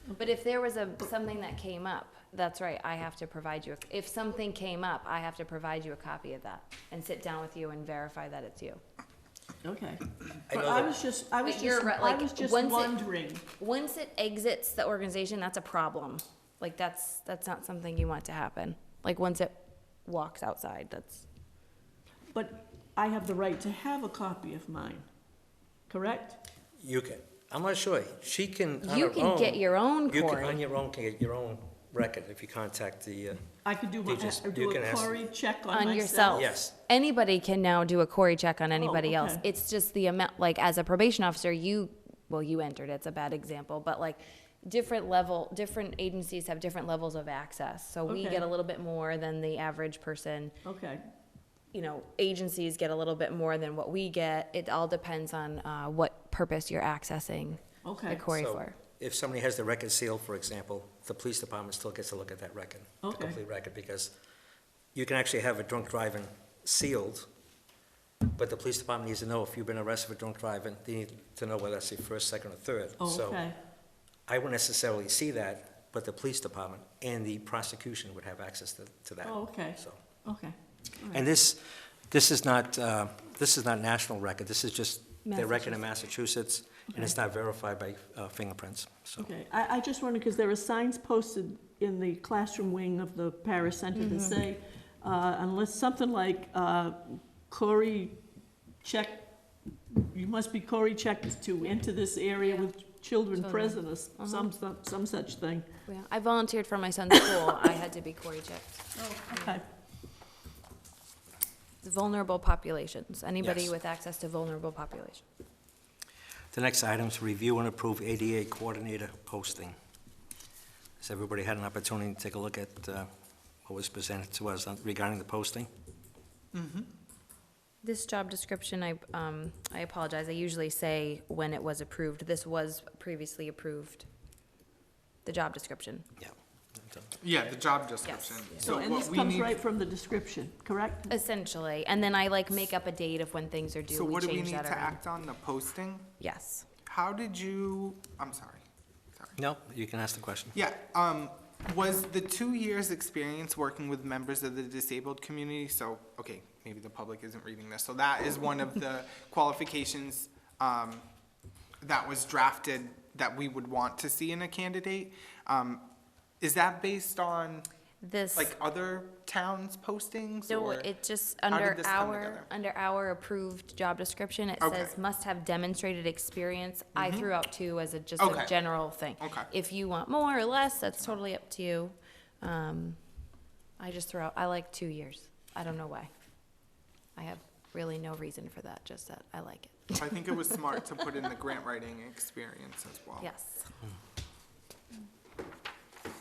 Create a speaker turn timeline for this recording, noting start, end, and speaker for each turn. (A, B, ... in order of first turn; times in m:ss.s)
0:00.2-0:08.8 A
0:09.6-0:13.4 B
0:10.5-0:10.9 C
0:11.4-0:13.0 A
0:13.6-0:21.2 A
0:22.3-0:25.0 B
0:25.9-0:26.4 B
0:26.8-0:33.4 C
0:28.8-0:30.6 A
0:33.6-0:36.5 B
0:34.0-0:35.1 C
0:35.7-0:50.5 A
0:36.3-0:36.7 C
0:38.7-0:39.4 B
0:48.0-0:48.5 B
0:50.6-0:51.0 B
0:51.7-0:58.8 A
0:57.8-0:58.2 B
0:58.3-1:04.1 C
1:03.0-1:03.4 B
1:04.9-1:07.2 C
1:08.3-1:13.4 C
1:13.0-1:13.6 B
1:14.3-1:20.0 C
1:19.2-1:21.2 B
1:21.1-1:29.3 C
1:25.2-1:25.9 A
1:26.9-1:27.1 B
1:29.2-1:38.2 B
1:33.9-1:34.4 A
1:38.8-1:39.3 B
1:39.9-1:45.7 B
1:42.4-1:42.7 A
1:43.3-1:44.5 A
1:45.9-1:49.6 A
1:48.9-1:49.6 B
1:51.8-1:55.2 A
1:53.4-1:53.7 C
1:56.5-1:59.7 C
2:01.0-2:03.1 C
2:03.6-2:05.7 C
2:06.5-2:06.9 D
2:07.8-2:14.0 A
2:15.2-2:16.0 A
2:16.2-2:17.2 C
2:17.2-2:19.6 D
2:18.0-2:18.7 A
2:18.6-2:21.1 B
2:21.1-2:25.0 A
2:23.9-2:26.1 D
2:26.2-2:26.6 A
2:26.8-2:28.6 D
2:29.4-2:30.5 C
2:30.5-2:41.0 D
2:41.8-2:45.8 D
2:46.4-2:47.7 D
2:48.0-2:48.5 A
2:48.4-2:50.9 D
2:50.5-3:03.0 A
2:51.5-2:52.5 D
2:54.6-2:54.9 D
2:57.0-2:57.3 D
2:58.2-2:58.5 D
2:59.2-2:59.5 D
3:03.8-3:06.1 A
3:07.2-3:10.4 A
3:09.9-3:13.3 D
3:13.2-3:13.7 A